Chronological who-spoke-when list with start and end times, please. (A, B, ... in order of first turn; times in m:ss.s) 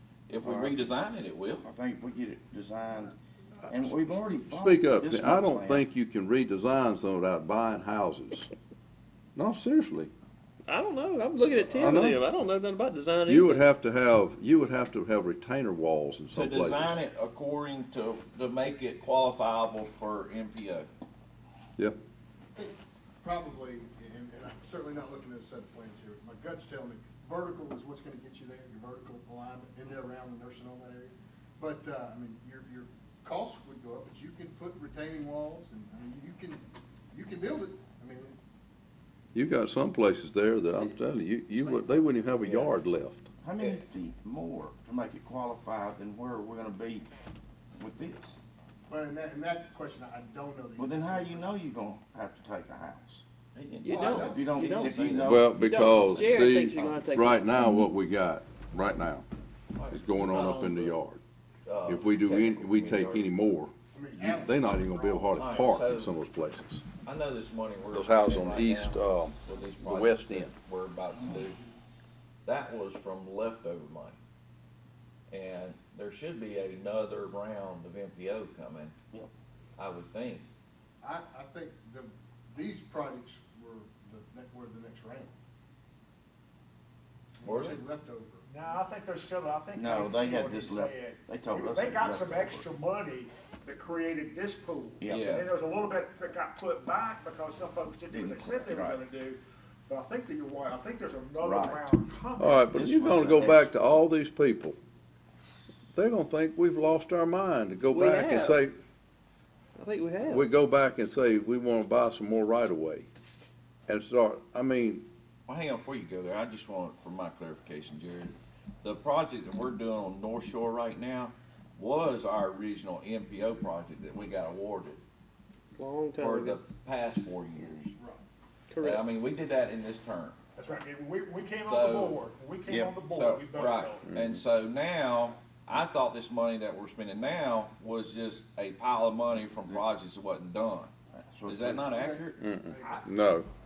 0:00.3-0:01.6 A
0:00.4-0:00.9 B
0:01.6-0:03.2 B
0:03.7-0:05.8 B
0:04.5-0:08.5 C
0:09.4-0:10.1 C
0:10.7-0:13.7 D
0:11.6-0:12.3 C
0:13.2-0:17.0 C
0:16.3-0:20.9 A
0:22.5-0:38.4 E
0:39.3-0:43.3 C
0:42.4-0:42.7 A
0:43.4-0:47.0 B
0:47.8-0:48.4 B
0:48.9-0:51.5 E
0:50.8-0:53.2 B
0:53.6-0:55.4 A
0:53.8-0:57.8 D
0:53.8-0:54.6 E
0:54.1-0:55.6 B
0:55.3-0:59.2 C
0:59.7-1:01.0 A
0:59.9-1:01.2 C
1:01.6-1:03.3 A
1:01.9-1:06.9 C
1:03.9-1:05.4 E
1:05.4-1:06.1 A
1:07.0-1:11.6 A
1:07.9-1:10.5 C
1:12.4-1:14.2 A
1:15.3-1:19.0 A
1:19.8-1:20.5 A
1:21.0-1:25.3 E
1:27.4-1:28.5 E
1:27.4-1:27.8 A
1:28.5-1:43.2 F
1:29.7-1:32.7 B
1:35.0-1:35.3 B
1:35.0-1:35.5 A
1:38.1-1:39.0 B
1:41.4-1:41.9 B
1:42.4-1:44.8 C
1:42.7-1:43.7 B
1:45.9-1:48.8 C
1:47.9-1:48.6 D
1:49.8-1:50.5 D
1:50.2-1:53.1 C
1:53.9-1:55.1 C
1:55.5-2:05.0 A
2:05.8-2:06.6 D
2:06.2-2:07.9 A
2:08.7-2:09.0 D
2:08.8-2:10.4 A
2:10.6-2:14.1 F
2:11.6-2:12.2 A
2:12.7-2:12.9 B
2:13.1-2:20.9 A
2:21.1-2:22.4 B
2:21.5-2:22.3 A
2:22.0-2:23.0 E
2:22.4-2:23.5 C
2:22.8-2:23.1 F